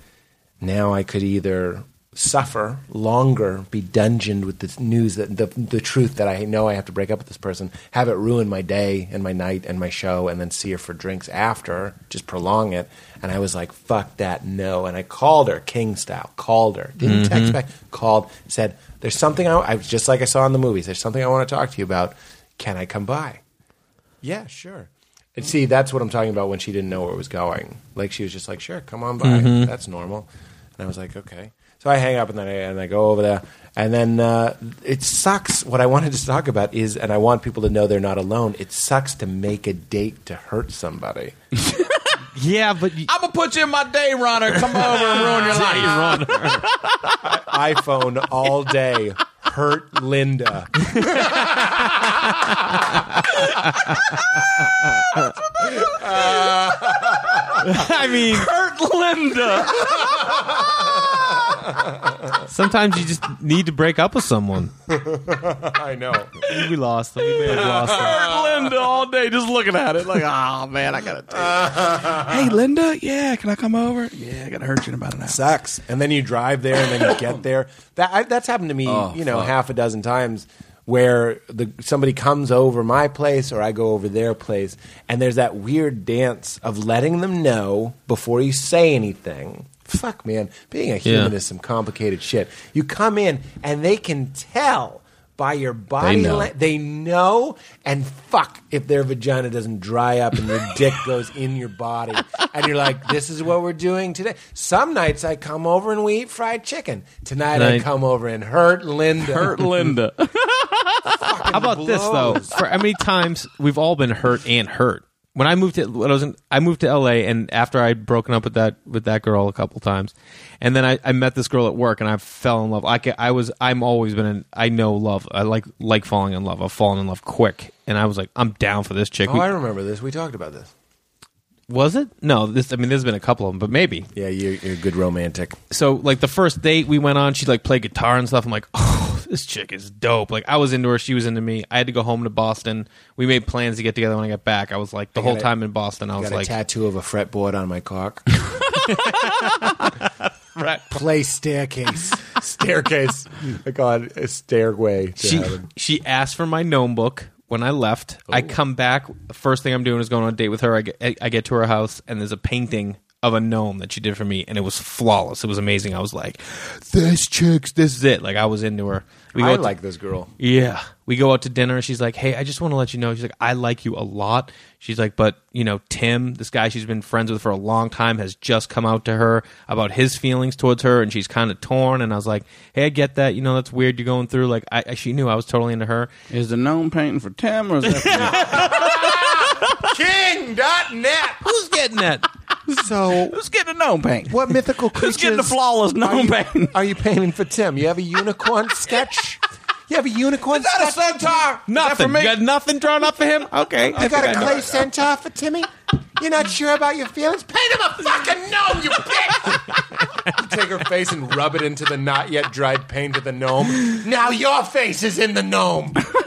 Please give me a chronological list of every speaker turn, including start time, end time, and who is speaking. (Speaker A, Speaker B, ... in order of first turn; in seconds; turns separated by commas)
Speaker A: 0.6-23.4, Speaker B: 17.0-17.6, Speaker A: 24.2-41.4, Speaker B: 29.2-29.7, Speaker B: 42.3-43.1, Speaker C: 43.1-47.1, Speaker B: 44.7-46.7, Speaker A: 47.2-51.7, Speaker B: 50.9-51.8, Speaker C: 53.2-54.2, Speaker A: 55.6-57.6, Speaker B: 57.6-58.5, Speaker C: 58.3-60.4, Speaker A: 59.6-62.4, Speaker B: 62.5-64.7, Speaker A: 64.9-66.4, Speaker B: 66.5-68.2, Speaker C: 67.4-75.5, Speaker A: 67.6-68.7, Speaker A: 71.4-72.3, Speaker A: 75.3-109.7, Speaker C: 78.8-79.5, Speaker B: 91.0-91.3, Speaker C: 96.0-96.5, Speaker B: 107.5-107.9, Speaker C: 109.3-111.3, Speaker A: 111.1-112.6, Speaker B: 111.5-129.5, Speaker A: 129.2-130.7, Speaker B: 131.7-134.1, Speaker A: 134.1-135.6, Speaker B: 135.7-146.5, Speaker A: 145.2-145.5, Speaker A: 146.2-148.3, Speaker B: 148.7-150.9, Speaker A: 150.9-155.7, Speaker B: 155.2-169.7, Speaker A: 169.3-170.3, Speaker B: 170.4-186.1, Speaker C: 186.3-188.6, Speaker B: 187.8-189.7, Speaker A: 188.2-191.4, Speaker B: 191.4-192.3, Speaker A: 192.7-193.4, Speaker C: 193.3-194.4, Speaker A: 194.3-201.6, Speaker C: 194.9-196.7, Speaker C: 200.5-202.3, Speaker B: 201.7-204.6, Speaker A: 203.9-216.1, Speaker C: 204.0-204.5